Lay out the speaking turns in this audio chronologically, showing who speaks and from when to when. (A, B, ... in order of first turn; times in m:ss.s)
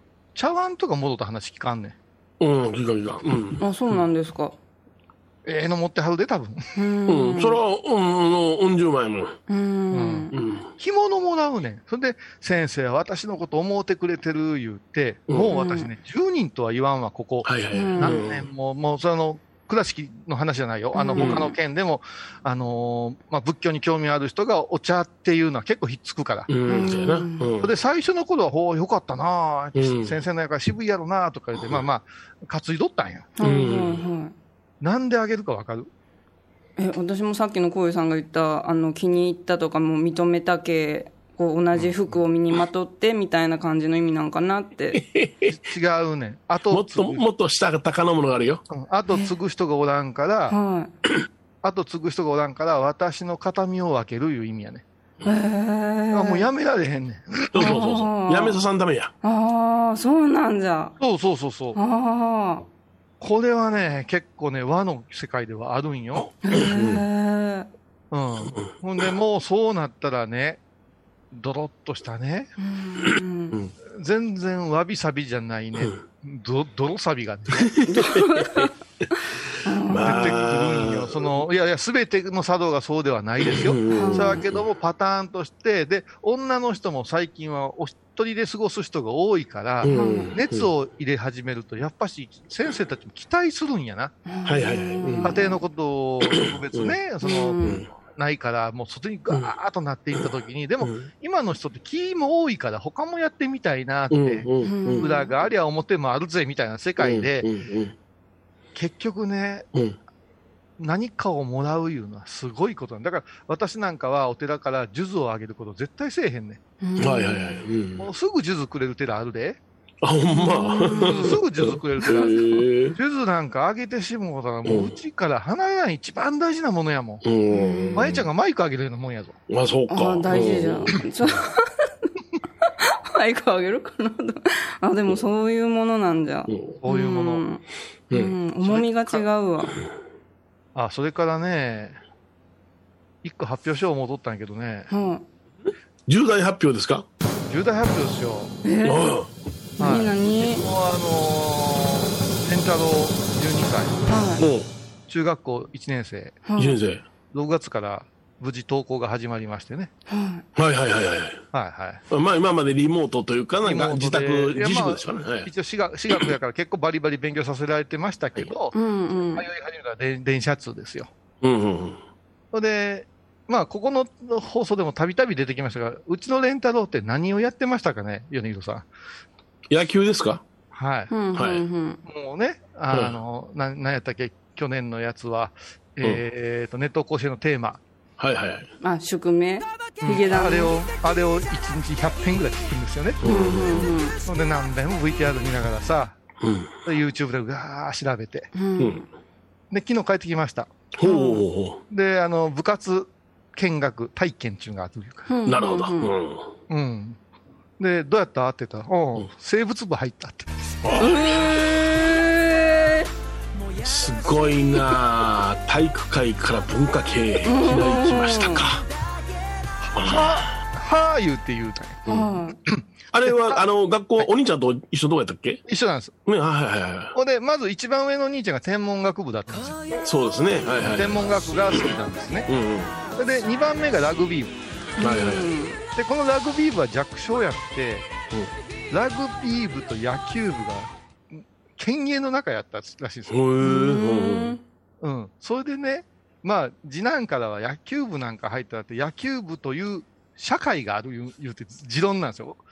0:00.3-0:02.0 A
0:02.4-0:03.6 B
0:03.6-0:04.6 C
0:05.4-0:06.6 A
0:06.8-0:07.6 C
0:07.1-0:09.4 B
0:09.5-0:10.3 C
0:09.9-0:26.5 A
0:10.3-0:10.7 B
0:15.5-0:15.9 C
0:17.4-0:18.4 B
0:17.7-0:18.2 C
0:20.9-0:21.5 C
0:21.2-0:21.4 B
0:26.5-0:27.7 B
0:26.7-0:27.5 C
0:27.6-0:33.3 A
0:29.7-0:30.1 B
0:33.4-0:34.3 C
0:33.4-0:34.0 B
0:34.8-0:35.9 A
0:36.8-0:45.0 C
0:44.9-0:45.5 B
0:45.5-0:47.2 A
0:46.7-0:48.6 B
0:48.7-0:50.6 A
0:50.5-0:50.9 C
0:51.6-0:54.8 A
0:55.2-0:56.5 C
0:56.1-0:57.8 A
0:57.5-0:59.1 B
0:57.6-0:58.6 C
0:59.2-1:01.0 C
1:01.0-1:01.8 A
1:01.7-1:02.6 C
1:03.2-1:06.3 A
1:06.2-1:07.0 B
1:06.4-1:07.7 C
1:08.1-1:10.6 A
1:08.5-1:09.0 B
1:11.3-1:12.5 A
1:12.6-1:13.6 C
1:13.8-1:17.7 A
1:15.8-1:16.0 B
1:17.6-1:18.7 B
1:17.9-1:18.7 C
1:19.6-1:20.3 C
1:19.9-1:21.3 B
1:20.0-1:34.2 A
1:23.4-1:24.6 B
1:23.9-1:24.4 C
1:29.8-1:30.7 B
1:29.9-1:30.3 C
1:34.2-1:35.6 C
1:34.4-1:35.4 B
1:35.2-1:47.5 A
1:36.2-1:36.9 B
1:37.2-1:37.8 C
1:37.6-1:37.9 B
1:40.8-1:41.1 B
1:44.1-1:45.1 B
1:44.6-1:45.3 C
1:47.0-1:47.9 B
1:48.7-1:49.7 A
1:50.8-1:56.6 A
1:56.8-1:57.6 C
1:57.0-1:58.1 B
1:58.0-1:59.6 A
2:00.0-2:03.0 B
2:00.3-2:01.3 C
2:01.0-2:07.2 A
2:04.6-2:04.9 B
2:07.2-2:08.2 B
2:07.5-2:08.0 C
2:07.9-2:09.4 A
2:09.5-2:11.0 B
2:09.9-2:11.9 C
2:12.6-2:19.8 C
2:16.5-2:16.7 B
2:16.8-2:17.4 A
2:18.1-2:18.3 B
2:18.6-2:19.3 A
2:20.7-2:22.0 A
2:23.2-2:24.9 A
2:24.9-2:25.2 C
2:26.1-2:27.0 B
2:27.5-2:28.6 A
2:28.6-2:29.1 C
2:28.8-2:29.3 B
2:29.8-2:30.7 C
2:29.8-2:34.1 A
2:34.1-2:34.4 C
2:34.4-2:34.7 B
2:35.1-2:36.4 A
2:36.5-2:36.8 C
2:36.6-2:37.0 B
2:37.3-2:39.9 A
2:40.1-2:40.4 C
2:40.6-2:41.4 B
2:41.5-2:42.0 A
2:42.1-2:45.5 B
2:43.6-2:48.8 A
2:48.7-2:49.4 C
2:49.3-2:51.1 A
2:51.4-2:52.0 B
2:52.5-2:58.9 A
2:59.7-3:00.4 B
3:00.7-3:01.1 A
3:01.1-3:02.0 C
3:01.3-3:01.6 B
3:02.0-3:07.8 A
3:02.9-3:03.2 B
3:08.2-3:08.7 B
3:08.8-3:10.7 C
3:10.0-3:13.2 A
3:13.2-3:13.9 B
3:13.2-3:14.2 C
3:14.2-3:16.2 A
3:16.4-3:16.7 B
3:16.8-3:18.5 A
3:18.5-3:19.0 C
3:18.8-3:19.0 B
3:19.7-3:20.7 A
3:21.0-3:21.8 B
3:21.0-3:21.4 C
3:21.9-3:25.3 A
3:25.3-3:26.1 C
3:25.4-3:26.5 B
3:26.7-3:27.2 A
3:27.8-3:30.5 A
3:30.8-3:31.5 B
3:31.0-3:33.1 C
3:33.8-3:38.8 B
3:37.4-3:38.6 C
3:39.9-3:40.6 B
3:39.9-3:42.0 A
3:42.1-3:42.3 B
3:42.1-3:42.6 C
3:42.6-3:43.6 A
3:43.1-3:45.6 B
3:45.7-3:46.1 A
3:46.2-3:47.1 B
3:47.1-3:49.8 A
3:50.0-3:51.2 B
3:50.8-3:52.5 A
3:52.5-3:53.0 B
3:53.1-3:54.5 A
3:55.0-3:55.5 B
3:55.0-3:55.8 C
3:55.9-3:58.1 A
3:58.9-4:03.4 A
4:03.3-4:04.6 B
4:03.6-4:04.6 C
4:05.0-4:12.6 A